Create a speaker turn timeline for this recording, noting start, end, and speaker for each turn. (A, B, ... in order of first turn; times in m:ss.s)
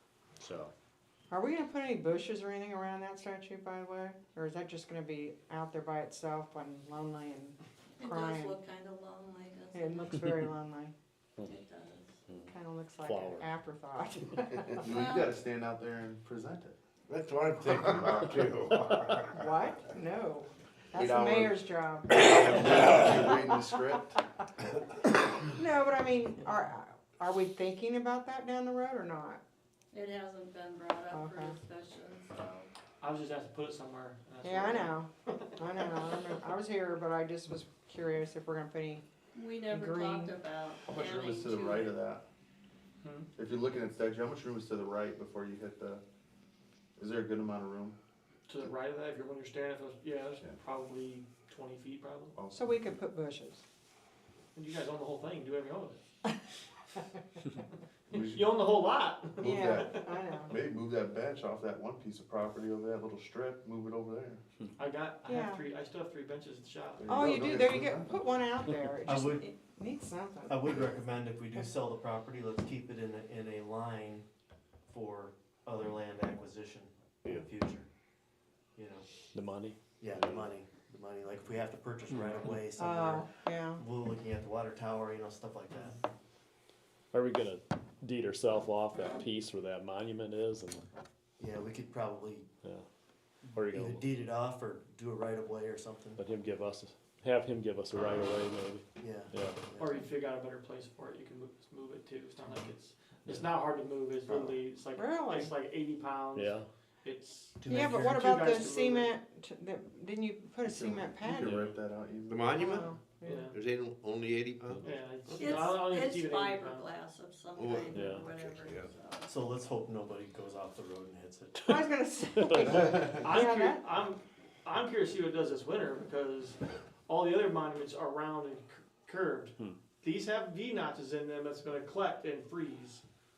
0:00.4-0:00.7 A
0:01.3-0:08.6 B
0:08.0-0:10.2 C
0:09.7-0:10.9 B
0:11.4-0:12.2 C
0:12.4-0:14.9 B
0:13.0-0:13.5 A
0:14.7-0:16.8 D
0:14.9-0:15.4 C
0:17.1-0:19.5 E
0:19.3-0:23.6 B
0:21.0-0:21.4 D
0:21.0-0:21.5 E
0:22.1-0:24.2 D
0:25.4-0:29.4 B
0:29.9-0:32.7 C
0:31.1-0:31.6 B
0:33.0-0:35.3 F
0:34.4-0:39.0 B
0:39.3-0:42.0 C
0:39.6-0:40.3 B
0:40.9-0:42.2 D
0:43.0-0:43.3 F
0:43.4-0:46.0 D
0:47.0-0:48.0 D
0:48.5-0:52.4 F
0:52.4-0:52.9 D
0:52.5-0:53.6 B
0:54.6-0:56.0 F
0:58.1-1:00.1 F
0:58.1-0:58.6 D
0:59.4-1:04.4 D
0:59.4-1:00.6 B
1:04.8-1:07.1 F
1:05.3-1:05.7 B
1:07.0-1:08.2 D
1:07.1-1:10.9 B
1:09.1-1:09.5 G
1:10.5-1:14.3 G
1:14.9-1:17.9 G
1:18.8-1:19.1 G
1:19.3-1:20.5 A
1:20.0-1:26.0 G
1:22.8-1:23.8 B
1:27.1-1:30.9 A
1:31.4-1:32.5 G
1:33.6-1:34.1 A
1:33.6-1:36.2 G
1:36.2-1:39.6 A
1:39.0-1:40.0 G
1:39.8-1:49.1 F
1:44.3-1:44.6 G
1:45.0-1:45.5 B
1:46.3-1:46.7 A
1:47.6-1:48.2 G
1:47.7-1:51.5 B
1:50.7-1:52.7 D
1:51.4-1:51.8 A
1:52.3-1:52.9 E
1:52.6-1:53.5 B
1:53.2-1:53.6 F
1:53.5-1:55.7 E
1:54.8-1:56.9 F
1:55.4-1:59.3 C
1:57.6-1:58.9 E
1:57.9-1:58.4 A
1:59.3-2:01.8 G
2:01.6-2:03.8 B
2:02.4-2:02.7 A
2:03.1-2:13.0 F